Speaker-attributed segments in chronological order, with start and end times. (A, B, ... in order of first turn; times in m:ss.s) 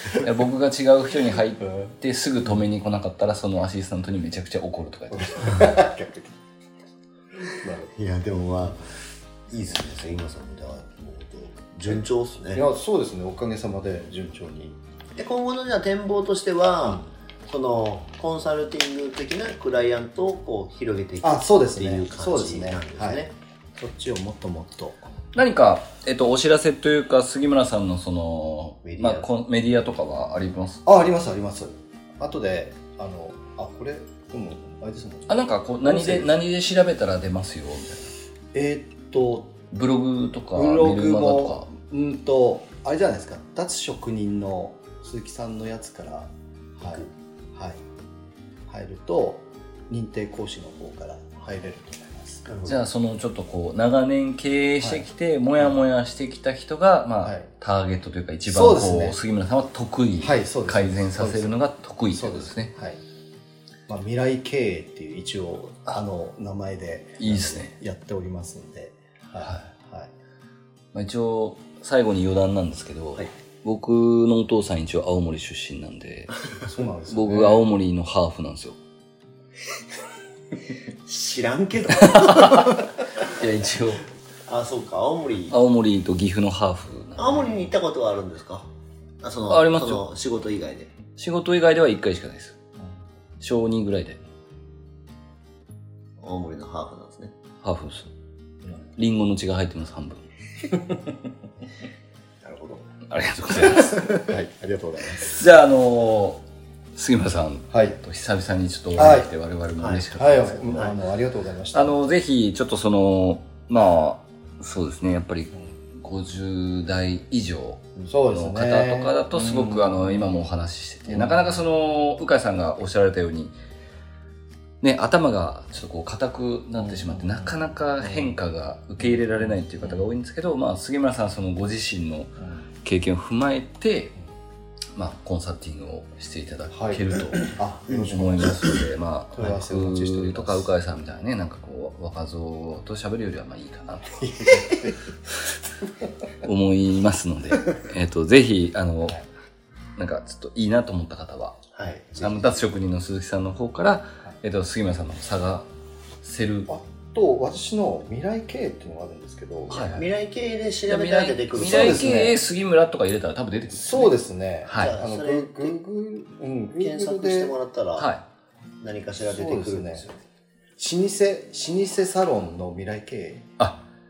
0:00.2-0:05.8 A
0:05.1-0:06.3 B
0:07.6-0:07.9 B
0:07.9-0:08.8 C
0:09.5-0:12.6 C
0:12.5-0:14.8 B
0:15.2-0:23.3 C
0:21.2-0:25.1 B
0:25.3-0:30.8 A
0:28.8-0:29.3 C
0:30.9-0:36.4 B
0:35.3-0:38.1 A
0:38.5-0:39.5 B
0:39.7-0:41.7 A
0:40.5-0:47.8 B
0:48.7-0:52.5 B
0:52.5-0:52.8 C
0:52.7-1:02.7 A
0:54.8-0:55.1 B
0:57.2-0:57.5 B
0:58.5-0:59.2 B
1:00.2-1:01.6 B
1:02.1-1:03.0 B
1:03.9-1:10.1 B
1:07.2-1:07.7 A
1:10.9-1:16.5 A
1:16.5-1:17.6 B
1:17.1-1:18.8 A
1:21.0-1:22.8 C
1:21.9-1:24.0 A
1:24.5-1:25.6 C
1:25.5-1:27.7 A
1:27.2-1:28.7 C
1:29.2-1:30.9 C
1:29.5-1:30.0 A
1:31.2-1:32.6 A
1:33.4-1:34.2 A
1:36.2-1:37.3 C
1:37.6-1:38.1 A
1:39.0-1:40.2 A
1:40.7-1:41.1 B
1:42.4-1:42.8 C
1:43.1-1:44.0 A
1:43.9-1:44.3 C
1:44.2-1:45.3 B
1:45.3-1:46.4 A
1:47.0-1:50.9 A
1:47.7-1:48.0 B
1:49.0-1:49.3 B
1:49.8-1:50.2 C
1:50.2-1:52.1 B
1:51.7-2:03.6 A
1:58.1-2:00.5 B
2:01.0-2:01.6 B
2:04.8-2:14.1 A
2:06.8-2:08.4 B
2:09.0-2:10.1 B
2:12.4-2:12.7 B
2:15.0-2:24.3 A
2:16.7-2:18.8 B
2:17.9-2:18.8 C
2:19.3-2:20.7 B
2:24.2-2:25.1 B
2:26.4-2:29.2 A
2:30.0-2:31.6 A
2:31.8-2:32.6 C
2:31.9-2:32.4 B
2:32.2-2:35.7 A
2:36.2-2:36.7 A
2:36.7-2:40.0 B
2:39.7-2:40.1 A
2:40.0-2:42.2 C
2:40.9-2:45.0 A
2:41.6-2:42.4 B
2:43.7-2:47.6 B
2:44.7-2:45.8 C
2:46.8-2:48.1 C
2:48.0-2:48.3 A
2:48.8-2:50.2 C
2:49.2-2:50.1 B
2:50.8-2:53.5 B